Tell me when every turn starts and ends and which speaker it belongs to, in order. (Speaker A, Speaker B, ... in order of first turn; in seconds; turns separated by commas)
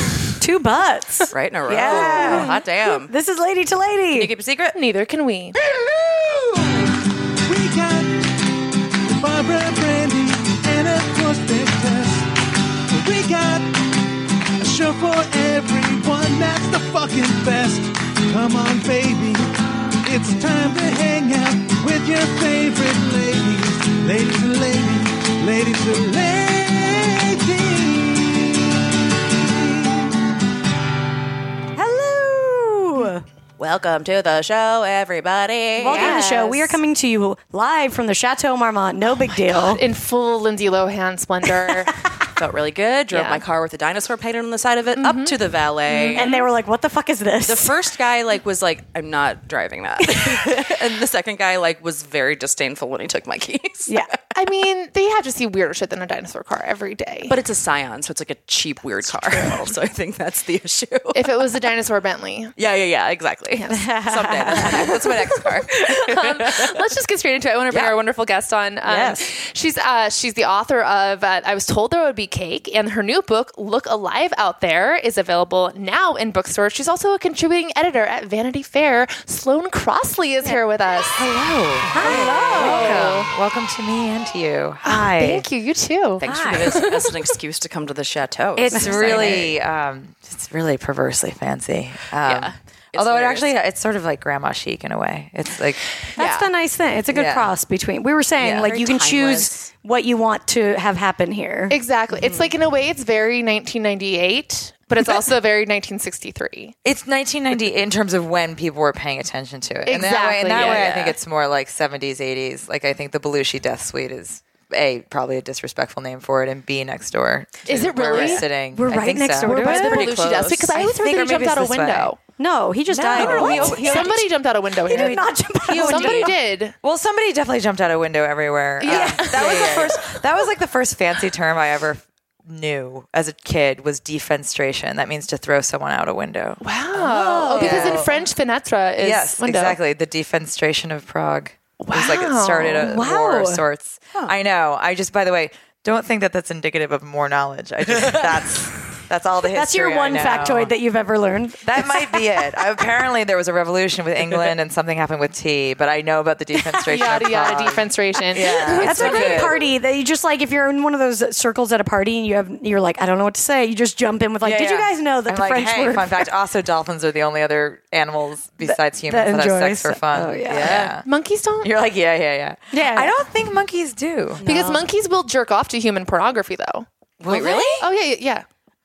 Speaker A: 0.4-4.3, Speaker B: 1.3-3.1, Speaker C: 1.9-2.5, Speaker B: 4.1-4.8, Speaker C: 4.7-5.6, Speaker D: 5.5-12.3, Speaker D: 12.9-14.1, Speaker D: 14.6-19.4, Speaker D: 20.0-30.4, Speaker A: 31.8-33.2, Speaker B: 33.6-36.6, Speaker C: 35.8-36.6, Speaker A: 35.8-39.8, Speaker C: 39.5-42.1, Speaker B: 42.3-46.3, Speaker C: 43.1-43.4, Speaker C: 45.0-46.4, Speaker A: 46.1-47.8, Speaker B: 47.5-54.2, Speaker C: 54.3-57.4, Speaker B: 57.3-61.7, Speaker C: 61.1-62.5, Speaker B: 62.6-66.8, Speaker C: 63.5-81.3, Speaker A: 63.7-64.9, Speaker B: 67.7-68.0, Speaker B: 68.8-69.3, Speaker E: 81.1-85.5, Speaker A: 81.9-83.1, Speaker C: 82.0-83.3, Speaker B: 82.4-83.1, Speaker C: 84.8-87.1, Speaker B: 86.2-89.5, Speaker E: 86.2-86.9, Speaker A: 88.6-89.4, Speaker E: 88.6-95.8, Speaker B: 92.2-93.5, Speaker B: 96.2-96.5, Speaker A: 96.2-101.8, Speaker E: 97.1-97.5, Speaker E: 98.4-98.7, Speaker B: 98.6-99.7, Speaker C: 101.7-106.8, Speaker B: 102.1-102.5, Speaker E: 106.8-120.1, Speaker C: 109.9-110.9, Speaker B: 110.5-111.2, Speaker C: 117.7-118.5, Speaker B: 118.1-118.4, Speaker A: 118.7-120.1, Speaker B: 119.5-120.9, Speaker C: 119.6-122.2, Speaker E: 120.7-122.1, Speaker A: 122.4-124.3, Speaker B: 123.0-123.7, Speaker C: 123.1-126.8, Speaker E: 123.1-124.2, Speaker A: 124.8-126.4, Speaker E: 124.9-125.2, Speaker E: 125.7-138.3, Speaker B: 125.7-126.3, Speaker C: 128.8-130.0, Speaker A: 128.9-129.5, Speaker B: 129.2-130.0, Speaker C: 136.6-139.8, Speaker B: 137.5-138.1, Speaker E: 139.0-150.7, Speaker C: 141.8-142.9, Speaker A: 142.8-143.6, Speaker B: 148.0-148.4, Speaker A: 149.4-152.6, Speaker E: 151.6-159.6, Speaker C: 156.9-159.6, Speaker A: 158.8-166.3, Speaker E: 164.4-171.1, Speaker A: 168.6-170.9, Speaker B: 170.4-171.0, Speaker C: 171.1-171.7, Speaker E: 171.6-174.5, Speaker A: 172.7-173.2, Speaker B: 174.4-174.9, Speaker C: 174.4-176.9, Speaker E: 177.2-177.9, Speaker B: 177.2-177.8, Speaker C: 177.8-178.5